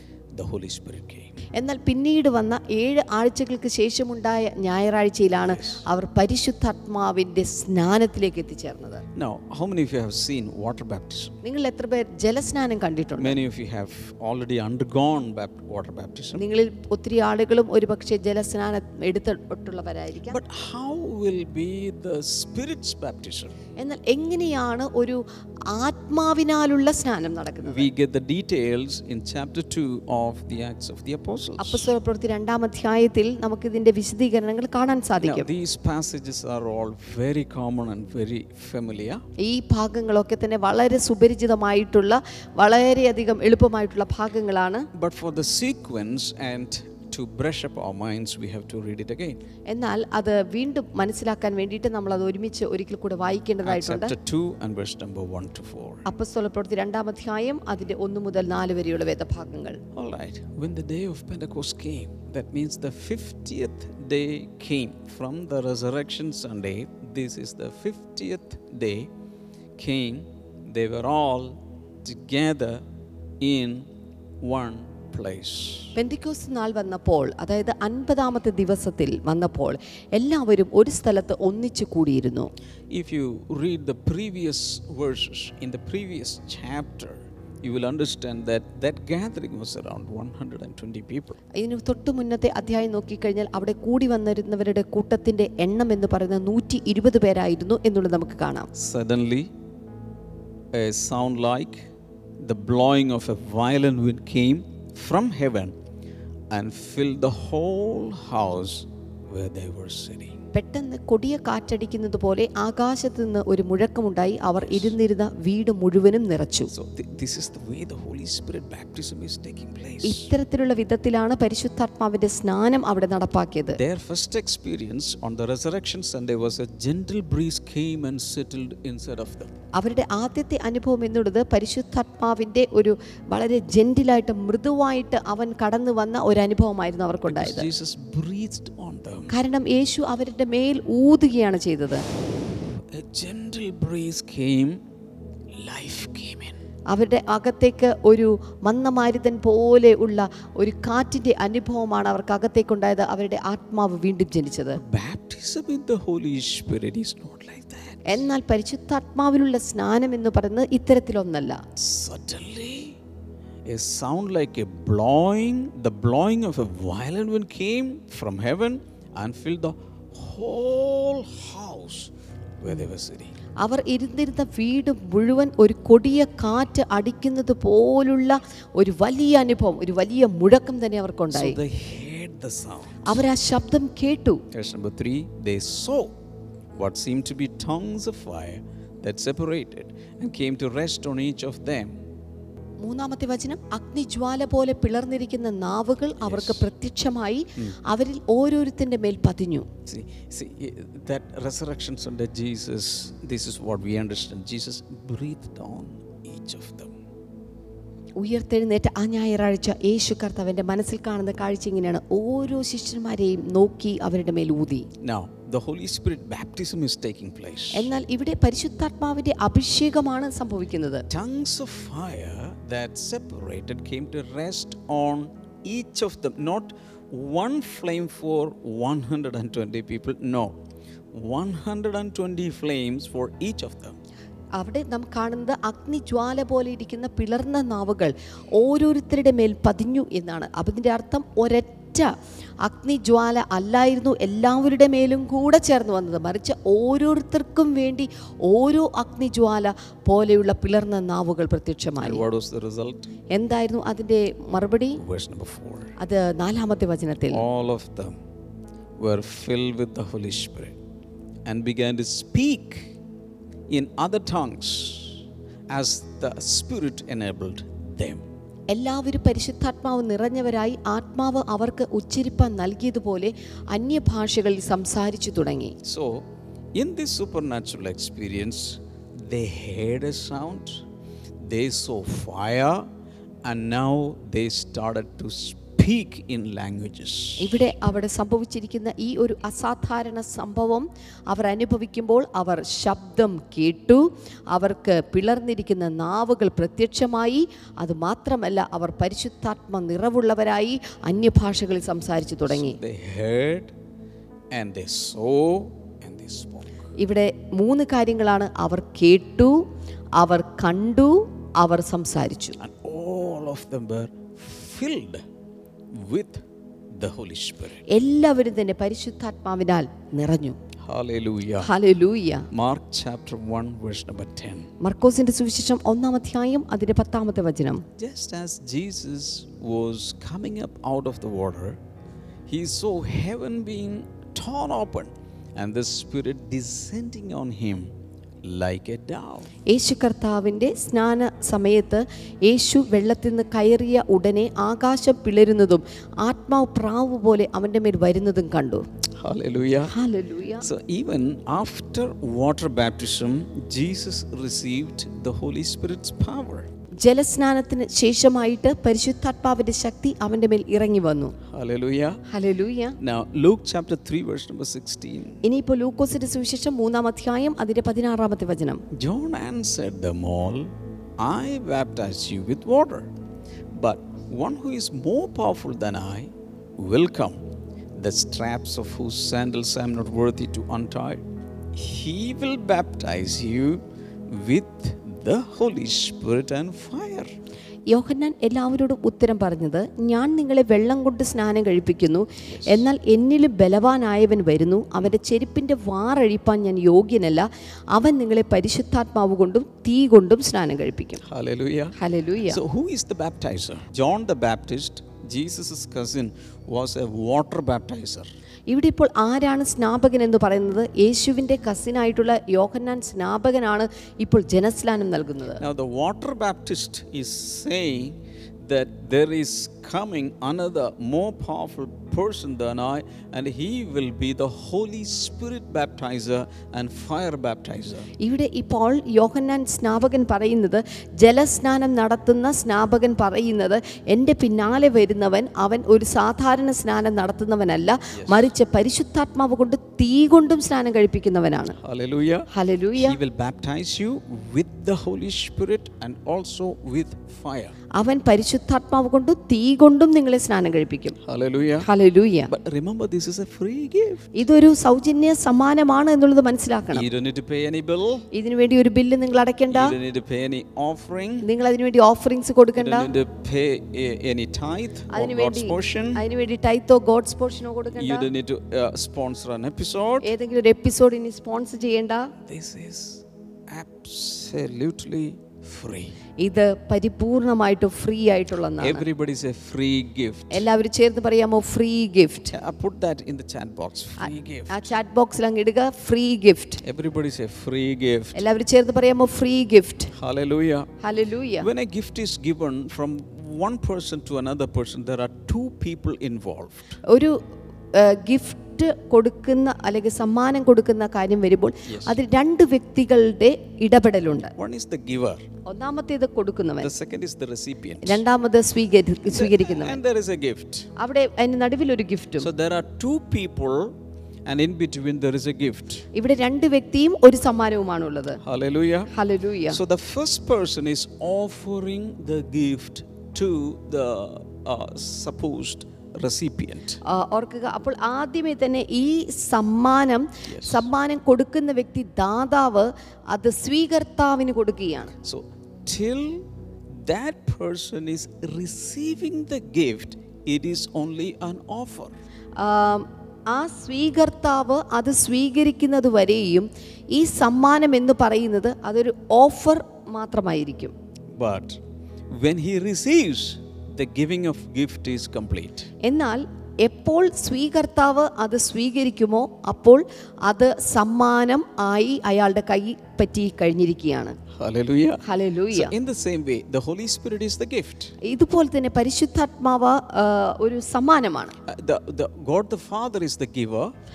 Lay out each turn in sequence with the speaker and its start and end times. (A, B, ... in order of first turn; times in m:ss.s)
0:00.3-0:01.4 A
0:01.5-0:09.0 B
0:05.4-0:05.8 A
0:09.2-0:11.4 A
0:11.4-0:13.4 B
0:13.2-0:16.4 A
0:16.4-0:20.4 B
0:20.3-0:23.6 A
0:23.8-0:27.9 B
0:27.6-0:31.9 A
0:31.6-0:35.5 B
0:35.2-0:39.2 A
0:39.4-0:44.9 B
0:44.9-0:49.4 A
0:49.7-0:54.2 B
0:53.6-0:56.0 A
0:56.1-0:59.8 B
0:59.9-1:09.1 A
1:09.8-1:12.8 A
1:13.4-1:13.9 A
1:14.4-1:16.0 A
1:16.0-1:22.5 B
1:22.9-1:31.4 A
1:31.6-1:38.7 B
1:38.7-1:39.5 A
1:40.7-1:41.9 A
1:42.4-1:45.7 A
1:46.5-1:50.4 A
1:50.5-1:56.7 B
1:54.6-1:54.9 A
1:56.7-2:00.3 A
2:00.0-2:03.8 B
2:03.7-2:09.5 A
2:09.8-2:17.7 B
2:17.3-2:19.3 A
2:19.3-2:22.0 B
2:22.9-2:24.8 A
2:25.6-2:26.6 A
2:26.9-2:34.8 B
2:34.7-2:38.2 A
2:38.1-2:41.6 B
2:41.8-2:43.0 A
2:43.7-2:53.4 A
2:53.6-3:01.6 B
3:01.3-3:03.2 A
3:03.0-3:04.4 B
3:04.5-3:06.2 A
3:06.7-3:12.0 A
3:12.8-3:19.7 B
3:16.2-3:16.7 A
3:19.9-3:26.9 A
3:28.2-3:34.9 B
3:35.0-3:37.9 A
3:37.7-3:41.0 B
3:41.1-3:50.6 A
3:51.1-3:54.0 A
3:54.6-4:02.1 B
4:02.6-4:12.2 B
4:12.0-4:13.1 A
4:13.3-4:15.0 B
4:15.0-4:15.9 A
4:16.0-4:17.4 B
4:17.3-4:18.2 A
4:19.0-4:20.8 A
4:21.5-4:22.9 A
4:23.7-4:28.2 A
4:28.7-4:35.8 B
4:35.8-4:40.8 A
4:41.4-4:42.9 A
4:43.4-4:47.6 A
4:47.4-5:02.8 B
5:02.5-5:03.7 A
5:04.5-5:06.7 A
5:07.0-5:09.6 B
5:10.2-5:12.6 B
5:12.6-5:15.2 A
5:15.9-5:17.8 A
5:17.9-5:20.6 B
5:20.8-5:21.7 A
5:21.6-5:22.5 B
5:22.5-5:24.7 A
5:24.8-5:27.8 B
5:28.0-5:31.8 A
5:32.5-5:37.9 A
5:38.4-5:39.5 A
5:39.7-5:48.8 B
5:49.2-5:50.0 A
5:49.9-5:50.7 B
5:50.6-5:56.7 A
5:57.0-6:01.4 B
6:01.5-6:02.2 A
6:02.3-6:03.0 B
6:03.0-6:05.4 A
6:05.4-6:08.8 B
6:08.9-6:13.1 A
6:13.7-6:17.4 A
6:17.9-6:21.2 A
6:21.7-6:27.3 A
6:27.9-6:41.2 B
6:32.5-6:32.8 A
6:41.2-6:48.3 A
6:42.0-6:42.6 B
6:48.7-6:55.6 B
6:55.6-7:08.1 A
7:08.2-7:21.8 B
7:18.1-7:18.5 A
7:21.8-7:27.8 A
7:22.5-7:23.2 B
7:27.9-7:31.2 B
7:31.2-7:31.9 A
7:31.8-7:32.5 B
7:32.5-7:34.4 A
7:34.4-7:37.1 B
7:36.9-7:38.2 A
7:38.3-7:40.0 B
7:39.7-7:41.5 A
7:41.4-7:43.1 B
7:42.8-7:46.2 A
7:45.1-7:48.3 B
7:47.9-7:50.3 A
7:50.2-7:52.3 B
7:52.4-7:56.2 A
7:56.4-7:59.1 B
7:58.8-8:00.6 A
8:00.5-8:02.5 B
8:02.5-8:04.9 A
8:04.2-8:06.8 B
8:06.8-8:08.4 A
8:08.4-8:10.1 B
8:10.1-8:11.0 A
8:11.0-8:11.7 B
8:11.6-8:17.0 A
8:17.1-8:17.4 B
8:17.9-8:24.5 B
8:21.8-8:22.2 A
8:24.5-8:25.4 A
8:25.7-8:26.9 B
8:26.8-8:28.2 A
8:28.0-8:30.0 B
8:29.3-8:30.9 A
8:31.0-8:32.5 B
8:32.4-8:34.0 A
8:34.5-8:36.1 A
8:36.1-8:38.4 B
8:38.4-8:39.1 A
8:39.1-8:39.8 B
8:39.7-8:47.0 A
8:47.0-8:55.1 B
8:50.4-8:50.9 A
8:55.2-9:02.2 A
9:02.6-9:10.9 B
9:11.3-9:15.9 A
9:16.0-9:24.4 B
9:24.5-9:28.1 A
9:25.2-9:25.9 B
9:28.2-9:31.6 B
9:31.6-9:33.9 A